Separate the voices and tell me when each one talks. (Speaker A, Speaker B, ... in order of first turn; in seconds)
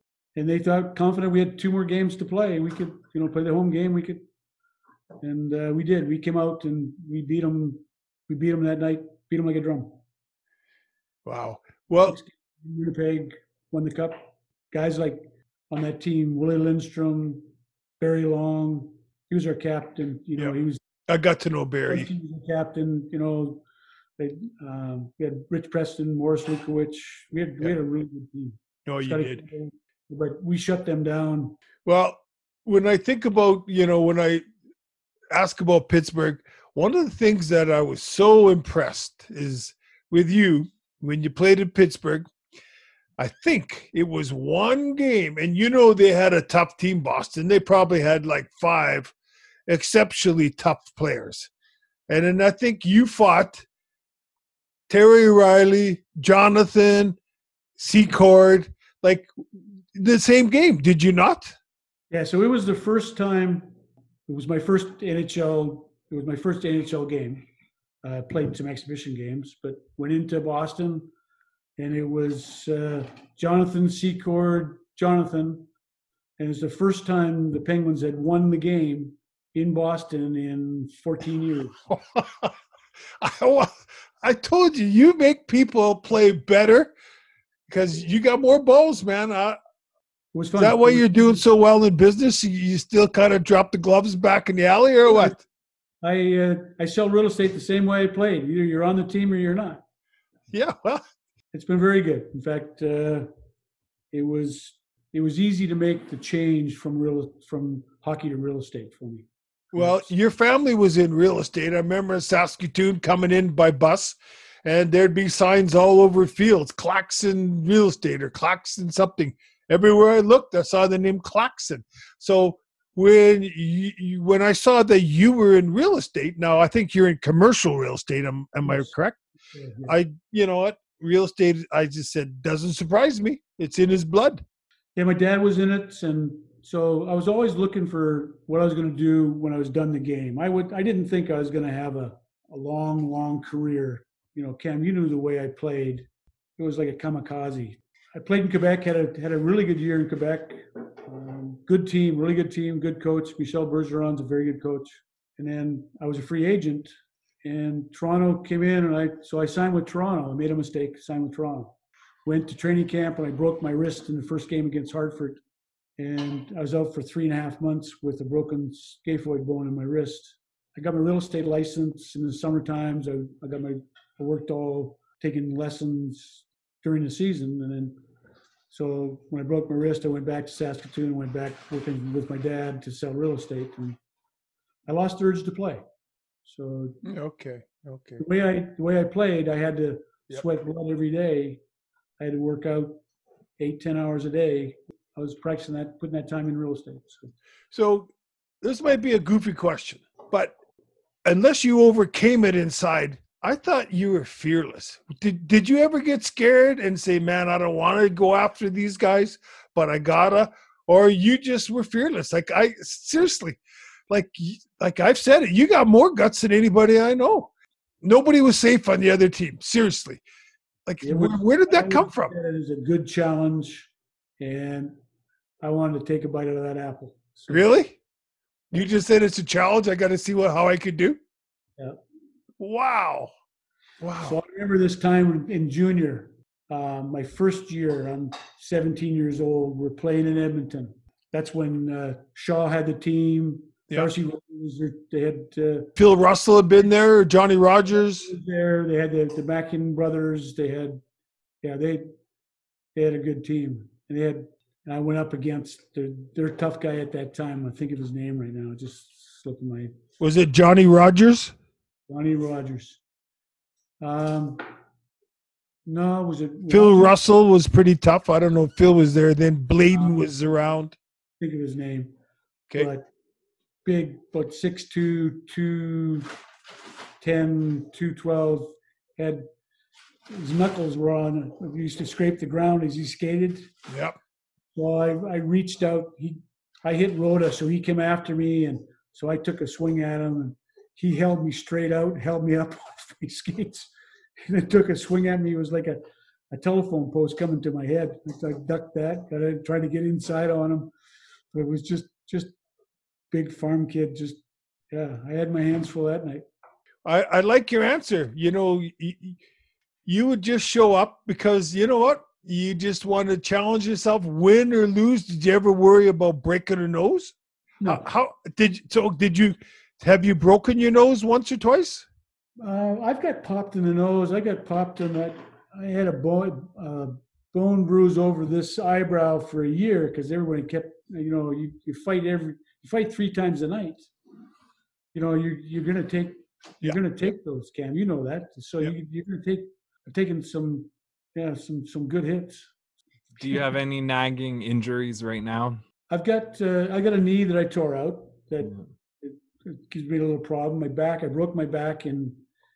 Speaker A: 0.4-4.3, 5.2-10.0, 12.1-17.5, 18.0-20.8, 21.9-23.6, 24.2-31.6, 62.1-63.7, 64.3-67.5, 68.0-71.1, 71.8-75.7, 76.4-81.8, 90.3-91.4, 95.1-95.4, 96.0-99.8, 101.5-103.3, 104.1-110.1, 128.6-128.9, 129.5-129.9, 135.0-146.1, 146.6-156.9, 157.4-161.7, 162.3-165.4, 166.0-178.0, 178.7-184.0, 184.9-185.8, 186.4-187.0, 188.2-191.6, 192.2-193.0, 193.6-197.3, 221.0-224.9, 225.6-227.7, 234.2-245.9, 247.9-251.0, 251.6-252.2, 252.9-259.9, 262.1-263.0, 264.0-264.7, 265.9-267.1, 269.9-270.4, 271.4-272.1, 272.8-273.1, 273.9-276.4, 277.2-279.5, 280.3-283.7, 284.8-300.9, 301.5-302.5, 303.3-306.4, 317.8-318.1, 322.6-334.0, 335.1-342.7, 346.1-352.4
Speaker B: 11.2-12.2, 21.1-22.1, 28.9-29.4, 31.9-34.5, 35.3-42.3, 43.2-49.1, 49.7-51.5, 52.1-53.7, 54.9-57.2, 57.8-59.3, 59.9-61.6, 81.9-82.6, 83.2-86.9, 87.7-89.6, 90.6-95.4, 100.5-101.0, 109.7-129.2, 129.9-134.4, 187.0-188.2, 197.7-198.1, 198.6-200.6, 201.2-217.5, 218.0-220.2, 220.9-222.3, 227.5-228.0, 228.7-231.2, 232.6-233.3, 234.0-234.4, 246.0-248.3, 260.2-261.6, 266.7-271.0, 283.9-284.2, 307.1-309.4, 310.1-322.1
Speaker C: 343.4-345.8